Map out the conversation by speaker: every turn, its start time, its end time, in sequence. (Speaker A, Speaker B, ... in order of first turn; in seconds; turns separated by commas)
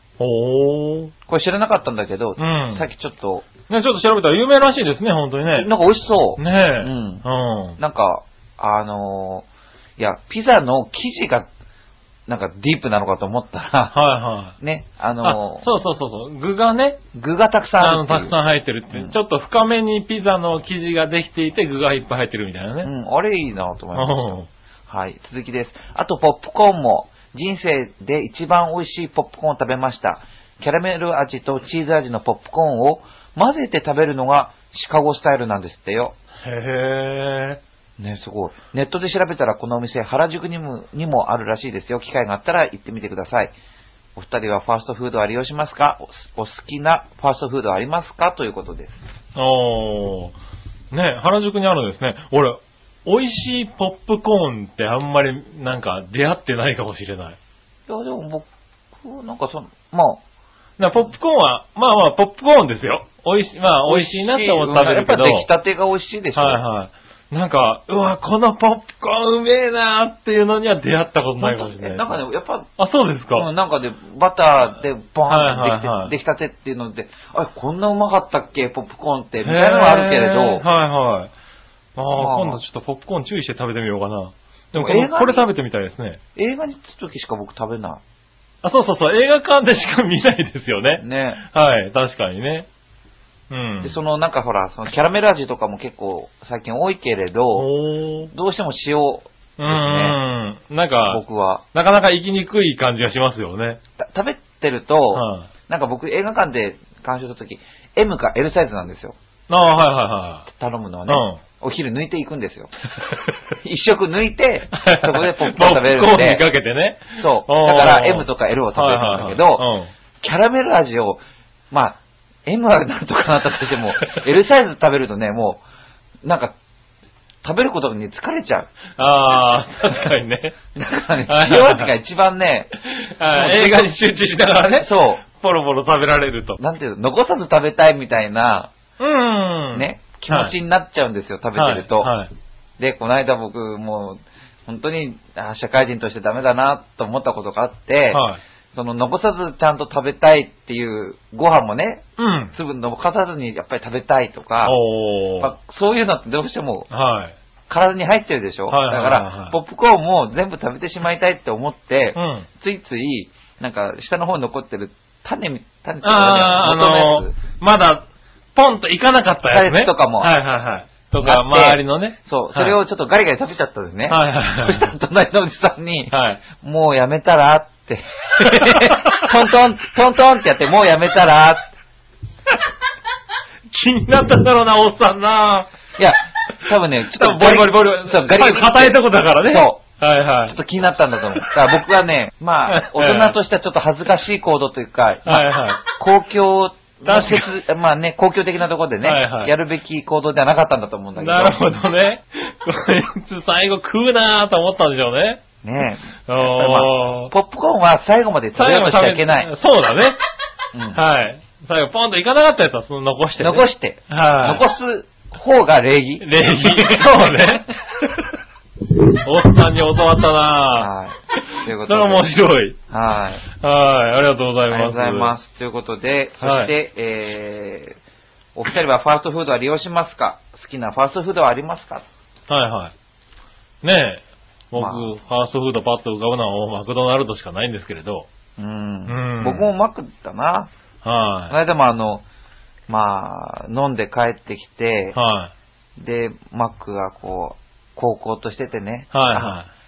Speaker A: 0.2-1.1, Speaker B: 1.3-3.5, Speaker A: 2.4-2.9, Speaker A: 3.7-5.7, Speaker B: 5.5-7.2, Speaker A: 6.4-7.8, Speaker B: 7.8-9.5, Speaker B: 10.0-11.5, Speaker B: 12.3-14.0, Speaker A: 13.9-14.6, Speaker B: 14.6-15.7, Speaker A: 15.2-17.0, Speaker B: 17.1-18.4, Speaker A: 17.8-22.9, Speaker B: 22.8-36.2, Speaker A: 23.9-24.5, Speaker A: 36.4-37.6, Speaker B: 38.0-43.5, Speaker B: 44.2-49.0, Speaker A: 49.4-50.4, Speaker A: 50.9-57.4, Speaker B: 57.9-60.2, Speaker A: 60.8-65.5, Speaker B: 63.9-66.6, Speaker A: 66.4-72.2, Speaker B: 71.4-72.7, Speaker A: 72.8-73.5, Speaker B: 73.3-80.7, Speaker A: 75.3-76.1, Speaker A: 79.4-81.3, Speaker A: 82.0-86.2, Speaker B: 82.1-82.6, Speaker B: 84.7-85.5, Speaker B: 86.4-88.0, Speaker A: 88.6-92.7, Speaker B: 91.0-91.4, Speaker A: 93.5-94.0, Speaker B: 93.8-97.7, Speaker A: 97.6-98.3, Speaker B: 98.3-100.2, Speaker A: 99.6-101.2, Speaker B: 101.0-101.6, Speaker A: 101.7-103.8, Speaker B: 104.0-109.2, Speaker A: 105.1-105.5, Speaker A: 109.5-110.5, Speaker B: 110.5-112.7, Speaker A: 111.1-111.4, Speaker A: 113.0-113.3, Speaker B: 113.6-116.5, Speaker A: 114.7-119.9, Speaker B: 117.2-119.7, Speaker B: 120.2-125.6, Speaker B: 126.2-126.5, Speaker B: 127.4-128.7, Speaker A: 129.0-130.6, Speaker B: 130.8-132.7, Speaker A: 131.3-131.9, Speaker A: 132.8-136.6, Speaker B: 133.3-134.0, Speaker B: 134.8-135.2, Speaker B: 136.6-138.7, Speaker A: 139.0-140.5, Speaker B: 139.7-142.2, Speaker A: 141.6-142.3, Speaker B: 142.8-154.8, Speaker A: 148.1-148.4, Speaker A: 152.2-152.6, Speaker A: 154.6-155.6, Speaker B: 155.4-156.9, Speaker A: 156.9-157.3, Speaker B: 157.7-167.4, Speaker A: 158.7-159.6, Speaker A: 162.2-162.5, Speaker A: 166.0-168.0, Speaker A: 168.6-172.8, Speaker B: 169.5-170.3, Speaker B: 171.2-181.7, Speaker A: 174.1-174.9, Speaker A: 176.1-176.4, Speaker A: 178.4-179.3, Speaker A: 183.7-185.7, Speaker B: 186.0-189.8, Speaker A: 187.1-190.6, Speaker B: 190.4-201.7, Speaker A: 192.7-193.4, Speaker A: 195.2-195.8, Speaker A: 197.1-197.5, Speaker A: 199.0-199.5, Speaker A: 201.2-205.4, Speaker B: 205.6-209.5, Speaker A: 206.3-207.3, Speaker A: 208.6-210.2, Speaker B: 210.7-211.0, Speaker A: 210.9-214.7, Speaker B: 213.4-217.6, Speaker A: 216.2-218.4, Speaker A: 219.0-222.8, Speaker B: 220.8-222.3, Speaker B: 222.9-223.4, Speaker A: 223.5-225.3, Speaker B: 224.7-228.0, Speaker A: 226.4-226.7, Speaker B: 228.6-232.1, Speaker A: 232.5-232.9, Speaker A: 233.8-238.3, Speaker B: 234.8-235.1, Speaker B: 238.6-240.7, Speaker A: 239.1-239.7, Speaker A: 241.0-241.6, Speaker B: 241.5-242.2, Speaker B: 242.9-245.2, Speaker A: 245.1-245.5, Speaker B: 246.0-249.6, Speaker A: 249.1-249.7